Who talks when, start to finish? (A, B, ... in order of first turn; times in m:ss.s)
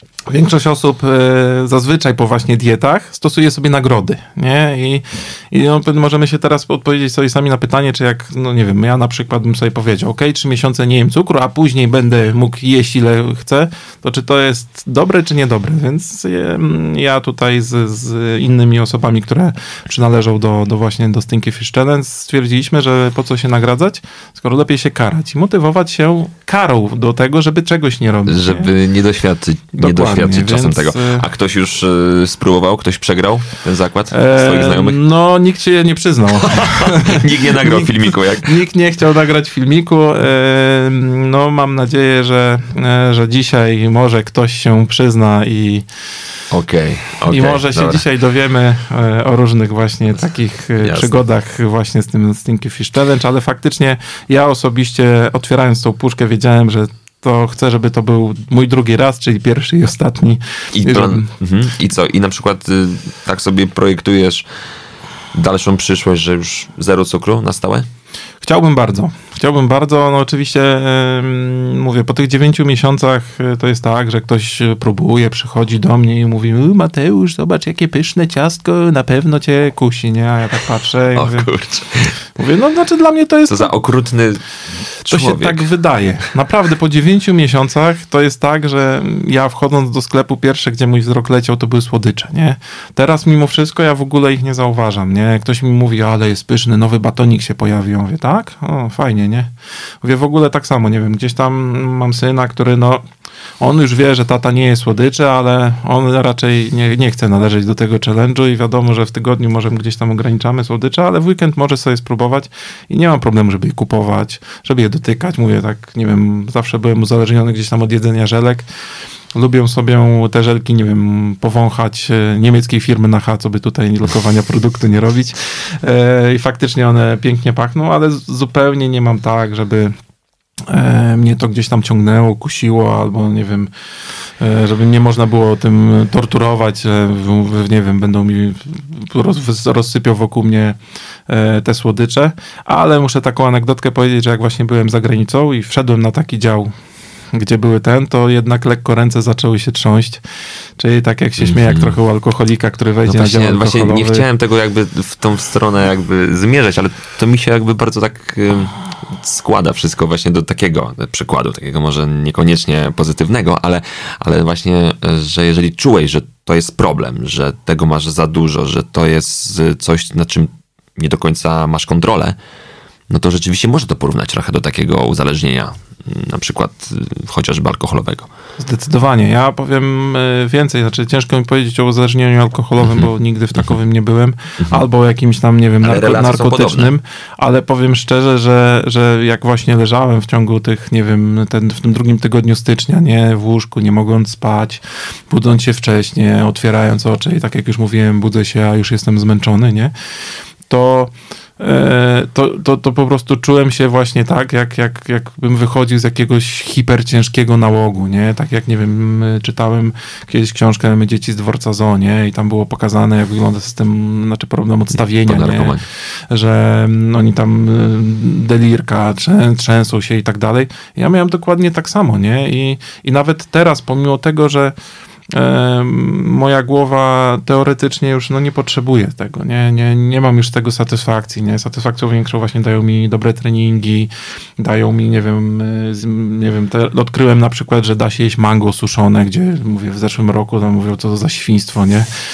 0:00.3-0:28.7 A
0:28.2-0:35.0 B
0:29.8-0:31.2 A
0:34.1-0:45.8 A
0:36.4-0:38.5 B
0:46.5-0:48.0 B
0:47.3-1:01.3 A
0:50.8-0:51.1 B
1:00.7-1:04.4 B
1:05.3-1:07.8 B
1:08.4-1:21.5 A
1:21.1-1:22.1 B
1:22.4-1:23.7 A
1:23.5-1:24.4 B
1:25.0-1:25.7 B
1:25.1-1:39.5 A
1:40.0-1:43.0 A
1:43.6-1:58.6 A
1:59.3-2:09.9 A
2:10.7-2:13.7 A
2:14.4-2:20.8 A
2:21.3-2:26.7 A
2:27.3-2:30.2 A
2:30.8-2:34.2 A
2:31.4-2:32.0 B
2:33.1-2:52.4 B
2:53.1-2:58.3 B
2:58.6-3:19.9 A
3:02.8-3:03.1 B
3:05.8-3:06.9 B
3:20.7-3:35.8 A
3:35.2-3:35.8 B
3:36.3-3:44.7 A
3:45.3-4:02.1 A